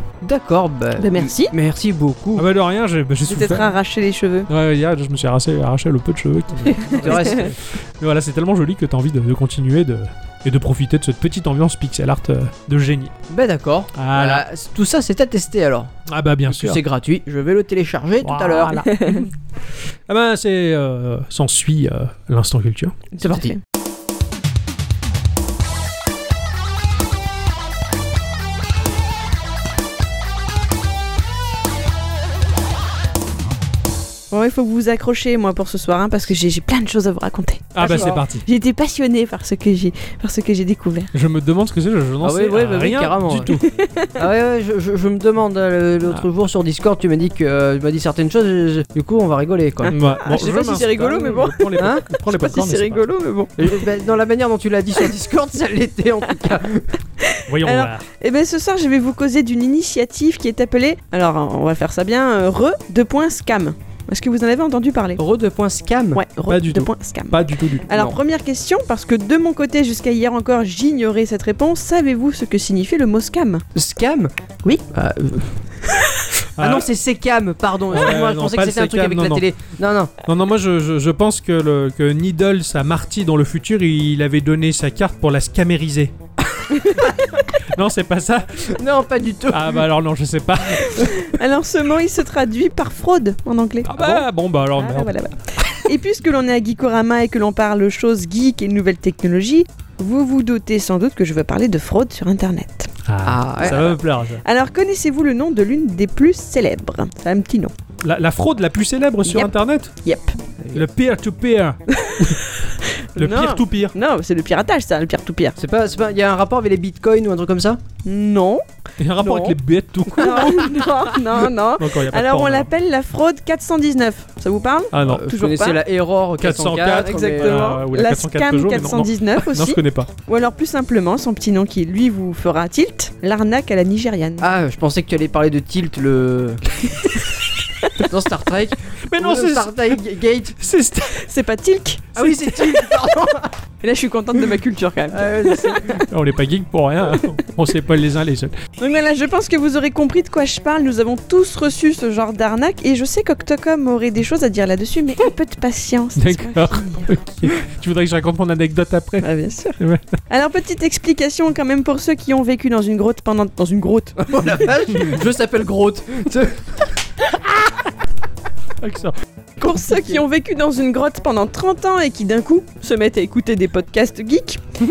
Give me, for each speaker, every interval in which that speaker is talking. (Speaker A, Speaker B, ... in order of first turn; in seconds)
Speaker A: 0.2-2.5, 6.9-7.5, 13.3-15.9, 16.5-18.8, 23.3-23.5, 37.8-38.2, 42.2-43.5, 44.2-50.0, 51.8-52.0, 53.6-56.9, 65.2-66.2, 73.8-74.3, 74.9-75.7, 76.6-80.1, 86.6-87.2, 88.7-89.8, 103.2-103.9, 115.6-117.8, 125.0-127.8, 134.4-136.6, 138.0-140.6, 142.1-143.5, 145.1-146.0, 164.2-166.9, 169.8-170.2
Speaker B: 1.0-1.5, 3.3-4.5, 6.8-7.5, 18.9-19.3, 23.2-23.6, 34.3-41.1, 43.5-44.1, 49.9-53.8, 57.2-65.2, 66.1-73.6, 90.8-102.9, 104.4-107.7, 109.3-109.5, 110.0-110.4, 111.9-115.6, 118.0-118.6, 119.2-119.6, 120.1-125.8, 126.9-134.5, 141.1-142.9, 143.8-146.1, 148.8-157.1, 159.2-164.7, 169.6-174.6
Speaker C: 2.4-3.8, 4.5-13.1, 13.9-14.4, 16.1-16.8, 18.2-19.2, 20.1-23.4, 37.8-38.5, 41.1-43.7, 49.9-53.1, 57.5-58.0, 66.5-67.9, 76.6-76.9, 77.9-79.5, 80.2-86.1, 87.7-88.7, 89.5-91.1, 93.8-95.1, 103.0-104.4, 108.0-109.9, 110.7-112.4, 113.2-114.0, 119.0-122.7, 124.9-125.3, 126.4-130.1, 139.1-140.0, 140.6-141.2, 146.1-148.6, 156.2-159.3, 159.8-160.1, 168.8-169.2